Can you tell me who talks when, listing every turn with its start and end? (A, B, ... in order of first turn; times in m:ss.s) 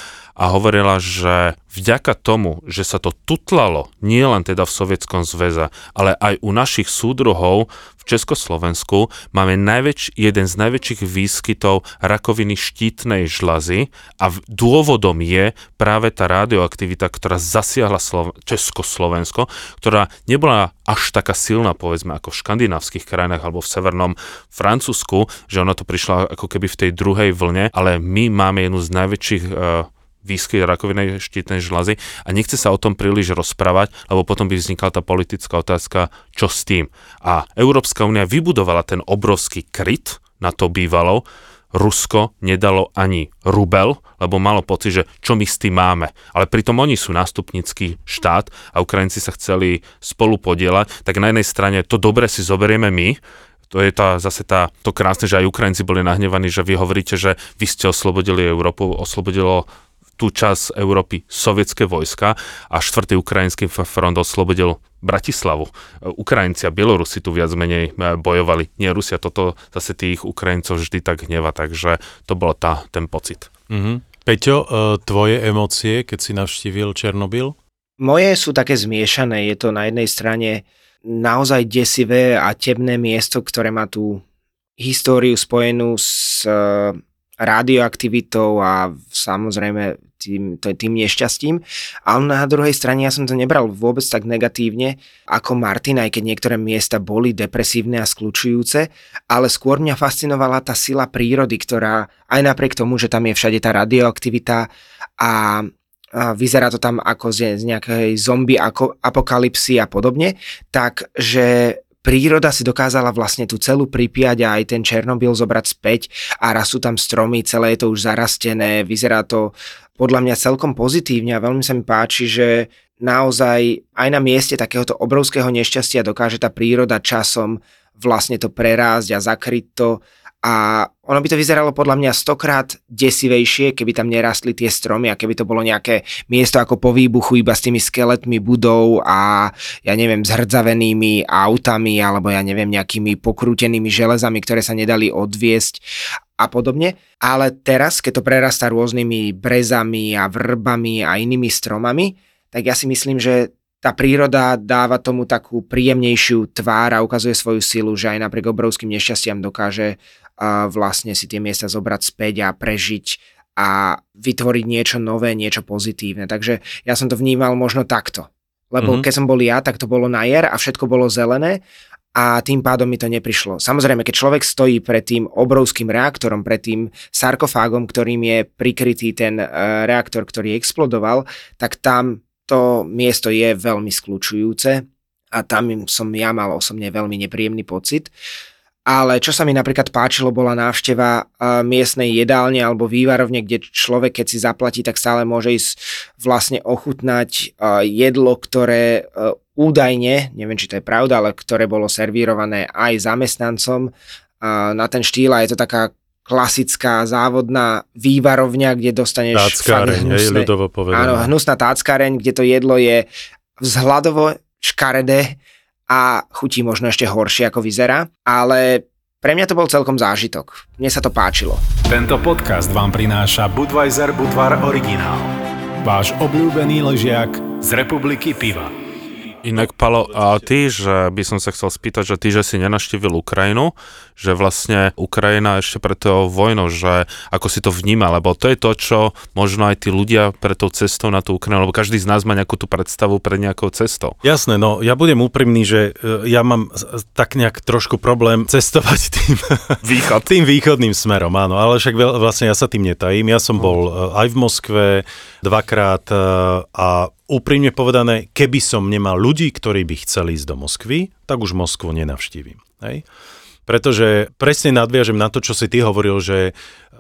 0:00.4-0:53.2 A
0:53.7-0:59.7 A
1:00.2-1:13.5 A
1:13.7-1:17.6 B
1:18.0-1:24.2 C
1:24.8-1:44.7 C
1:45.2-2:25.8 C
2:26.4-2:51.6 C
2:52.2-3:08.1 C
3:08.9-3:33.1 C
3:29.3-3:31.3 B
3:33.6-3:35.4 C
3:35.9-3:41.6 C
3:41.9-3:45.3 D
3:45.8-3:48.7 D
3:49.4-4:04.2 A
4:04.2-4:23.0 B
4:09.8-4:10.3 A
4:23.7-4:26.5 B